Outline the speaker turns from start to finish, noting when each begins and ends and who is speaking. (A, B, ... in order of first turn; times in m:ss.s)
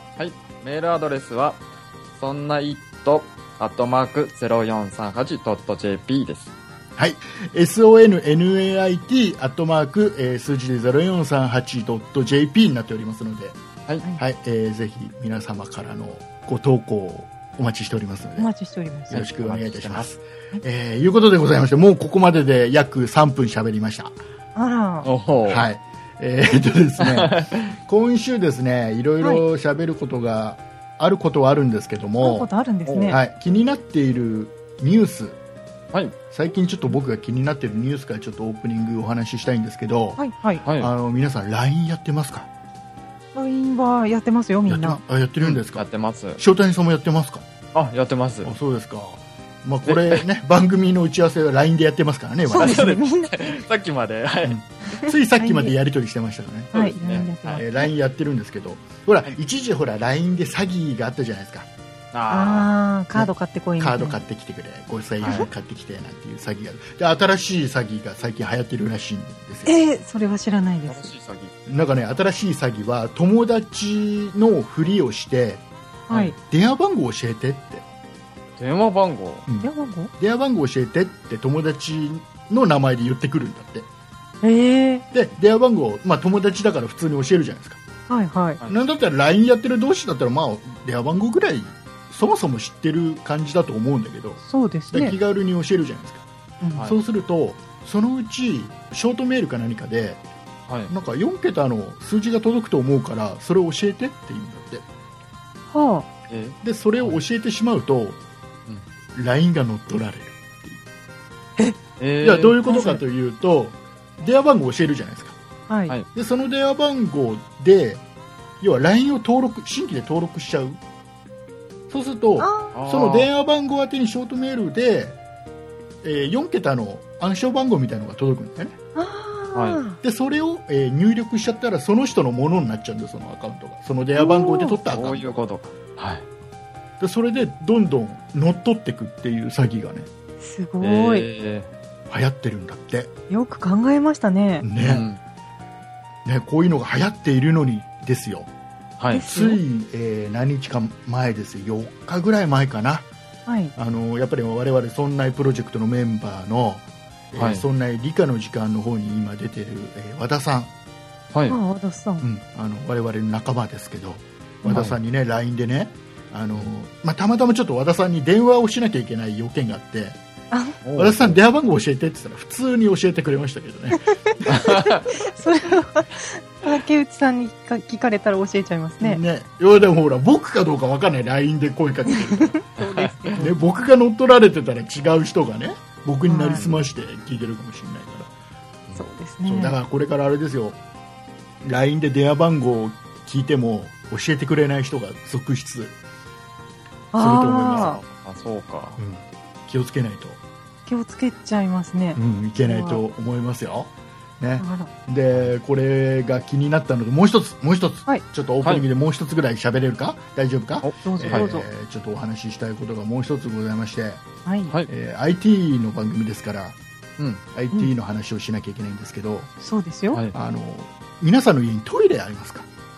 0:00.2-0:01.6 A
0:02.2-0:06.5 A
0:07.0-0:13.6 B
0:14.2-0:18.5 B
0:18.4-0:19.2 C
0:19.1-0:24.2 B
0:19.1-0:20.1 A
0:24.5-0:25.1 C
0:25.0-0:25.6 A
0:25.4-0:32.5 B
0:27.0-0:27.7 A
0:32.2-0:33.2 C
0:32.8-0:33.2 A
0:33.1-0:35.4 B
0:36.3-0:40.2 B
0:40.2-0:40.6 C
0:40.6-0:40.9 A
0:40.8-0:42.5 B
0:43.3-0:45.0 C
0:44.7-0:45.8 B
0:45.4-0:46.4 A
0:46.4-0:47.4 B
0:47.7-0:48.5 A
0:48.4-0:52.9 B
0:49.8-0:50.2 A
0:52.5-0:53.6 C
0:52.6-0:54.6 A
0:54.4-0:56.9 B
0:54.9-0:55.7 C
0:56.7-0:57.6 A
0:56.7-0:57.9 C
0:57.5-1:01.7 B
1:02.1-1:02.7 A
1:02.3-1:04.2 C
1:03.1-1:09.7 B
1:05.2-1:05.5 A
1:09.6-1:11.1 C
1:10.9-1:11.5 A
1:11.6-1:15.6 B
1:16.1-1:16.4 C
1:16.3-1:17.8 B
1:18.6-1:19.4 A
1:19.5-1:23.9 B
1:19.6-1:20.1 C
1:24.4-1:25.0 C
1:25.1-1:27.8 B
1:28.1-1:28.6 C
1:28.7-1:36.2 B
1:34.4-1:35.2 C
1:36.6-1:36.9 C
1:36.8-1:40.2 B
1:40.9-1:44.8 B
1:45.7-1:46.1 C
1:46.3-1:47.2 A
1:46.6-1:48.2 B
1:49.1-1:50.8 B
1:51.8-1:52.6 A
1:52.2-1:55.4 B
1:52.6-1:53.0 C
1:55.7-1:56.0 C
1:56.1-1:58.0 B
1:58.6-2:00.8 B
2:01.9-2:05.2 B
2:02.4-2:02.7 C
2:02.7-2:03.3 A
2:06.0-2:08.8 B
2:09.0-2:10.0 C
2:09.5-2:09.8 A
2:10.0-2:15.4 B
2:14.2-2:14.8 C
2:14.8-2:16.2 A
2:17.0-2:20.1 B
2:20.4-2:21.3 C
2:20.8-2:21.7 A
2:22.1-2:23.1 B
2:23.3-2:24.6 C
2:24.6-2:25.1 B
2:24.8-2:25.2 A
2:26.2-2:28.5 B
2:29.0-2:29.2 A
2:29.1-2:29.6 C
2:29.1-2:33.1 B
2:33.5-2:33.7 C
2:33.8-2:40.7 B
2:37.3-2:37.6 A
2:41.5-2:42.2 C
2:42.2-2:50.2 B
2:44.7-2:44.9 A
2:50.5-2:50.8 C
2:50.8-2:51.4 A
2:50.9-2:54.5 B
2:54.3-2:59.2 C
2:54.5-2:55.0 A
2:59.0-3:02.6 B
3:02.1-3:03.5 C
3:02.8-3:03.3 A
3:03.3-3:08.3 B
3:06.2-3:06.6 C
3:09.0-3:09.8 C
3:09.4-3:10.8 B
3:11.6-3:16.0 B
3:17.1-3:18.0 C
3:17.2-3:18.0 B
3:17.6-3:19.0 A
3:19.0-3:20.4 B
3:20.9-3:23.0 C
3:22.2-3:34.2 B
3:24.6-3:24.9 C
3:30.8-3:31.5 A
3:31.0-3:31.6 C
3:34.4-3:34.7 C
3:34.9-3:36.8 B
3:37.5-3:39.5 B
3:39.6-3:40.2 C
3:40.3-3:42.7 B